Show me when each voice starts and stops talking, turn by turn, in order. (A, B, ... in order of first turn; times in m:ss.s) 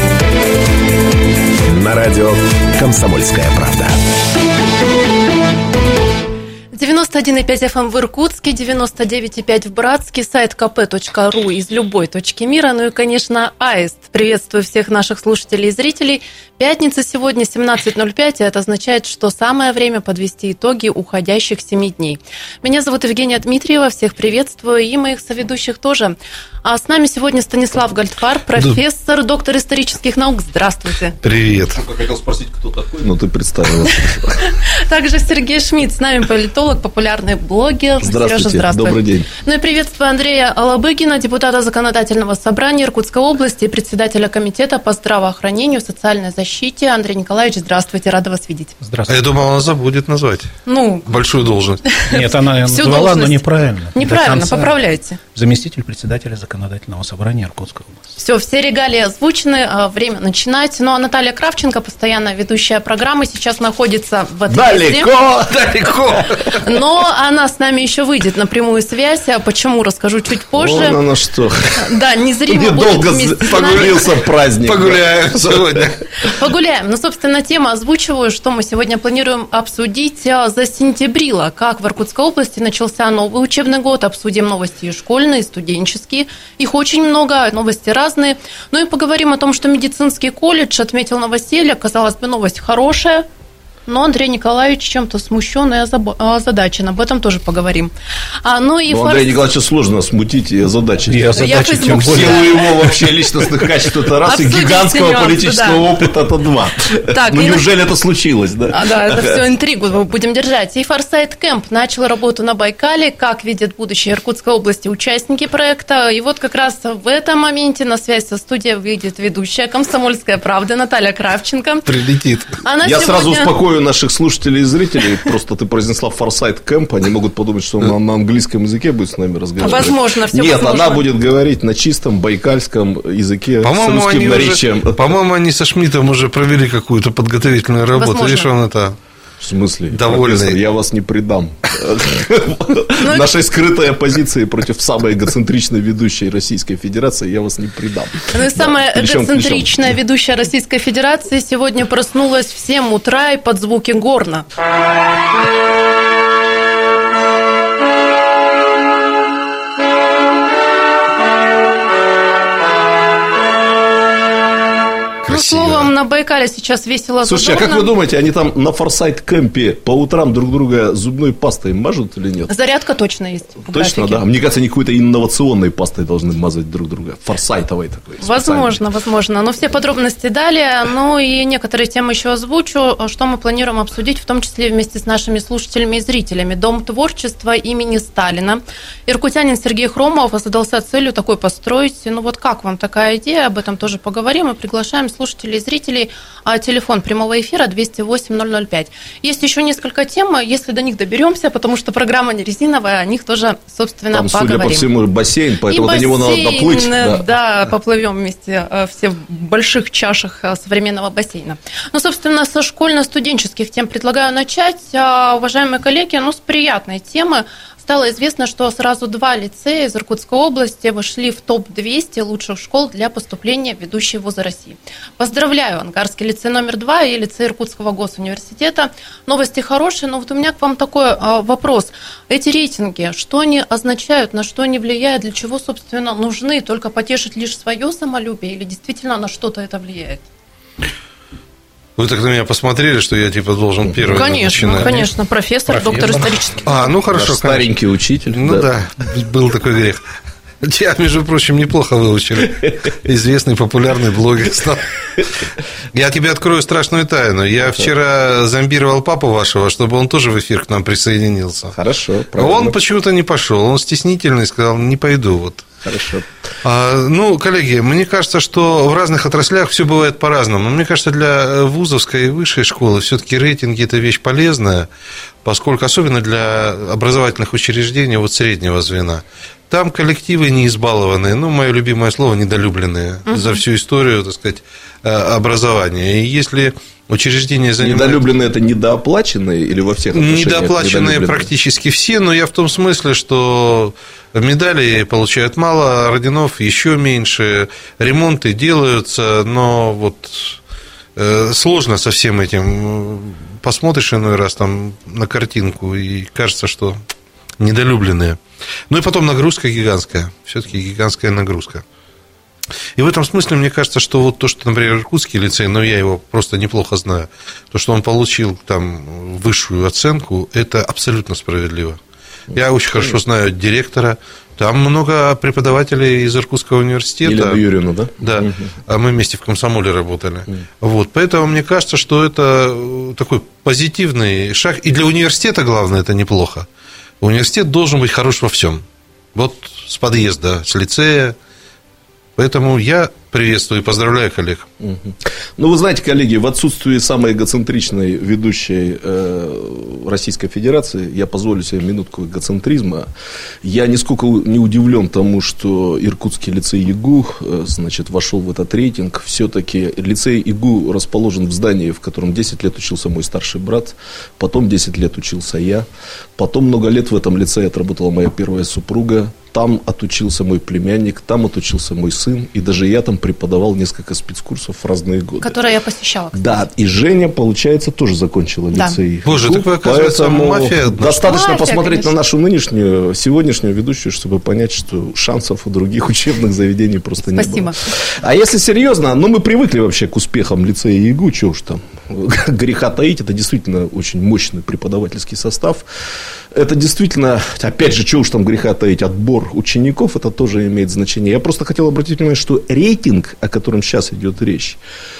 0:01.6-0:04.0 A
0:06.7-0:31.1 B
0:31.2-0:31.8 C
0:31.7-0:34.4 D
0:34.4-0:48.8 B
0:38.0-0:39.3 D
0:48.8-0:49.3 E
0:49.1-0:51.8 C
0:50.6-0:51.1 B
0:51.8-0:53.4 B
0:52.1-0:54.8 E
0:53.9-0:55.2 B
0:55.3-0:58.0 E
0:58.2-1:05.1 B
1:04.5-1:06.5 D
1:05.9-1:06.2 C
1:06.5-1:11.0 B
1:10.6-1:11.7 D
1:11.8-1:13.9 B
1:12.5-1:16.0 D
1:14.6-1:15.9 C
1:16.3-1:33.3 B
1:33.9-1:39.4 B
1:38.9-1:49.4 D
1:41.1-1:42.7 E
1:41.4-1:42.8 B
1:44.2-1:45.8 B
1:47.1-1:47.6 B
1:48.7-2:01.8 B
2:01.8-2:02.5 C
2:02.6-2:03.5 B
2:02.8-2:15.1 D
2:09.6-2:11.0 B
2:13.6-2:19.0 C
2:17.9-2:18.5 B
2:19.4-2:29.9 D
2:19.9-2:20.6 C
2:23.0-2:23.3 B
2:28.3-2:34.4 B
2:45.2-2:45.9 C
2:45.3-2:47.9 B
2:47.2-2:52.5 D
2:52.5-2:54.2 B
2:53.6-2:58.8 D
2:58.2-3:24.8 B
3:24.1-3:27.2 D
3:25.7-4:00.2 B
4:02.0-4:04.9 C
4:03.8-4:04.3 D
4:04.1-4:06.6 B
4:04.6-4:05.1 E
4:05.7-4:06.6 E
4:06.6-4:07.7 C
4:07.0-4:08.7 D
4:08.3-4:10.0 C
4:10.6-4:14.8 C
4:15.9-4:21.8 C
4:21.7-4:22.8 D
4:22.4-4:25.7 C
4:25.8-4:26.3 D
4:26.6-4:34.9 C
4:35.4-4:48.2 C
4:43.3-4:43.6 B
4:47.8-4:51.5 D
4:50.1-5:00.6 C
5:01.2-5:07.0 C
5:07.6-5:08.4 C
5:08.9-5:11.8 C
5:13.0-5:22.0 C
5:22.5-5:23.2 D
5:22.5-5:27.6 C
5:27.2-5:28.7 D
5:28.2-5:36.6 C
5:37.2-5:38.8 C
5:39.3-5:41.3 C
5:42.4-5:44.6 C
5:44.8-5:53.1 D
5:53.6-6:15.5 D
6:15.4-6:16.6 B
6:16.3-6:44.8 D
6:19.2-6:21.4 C
6:21.3-6:22.1 B
6:27.2-6:27.8 B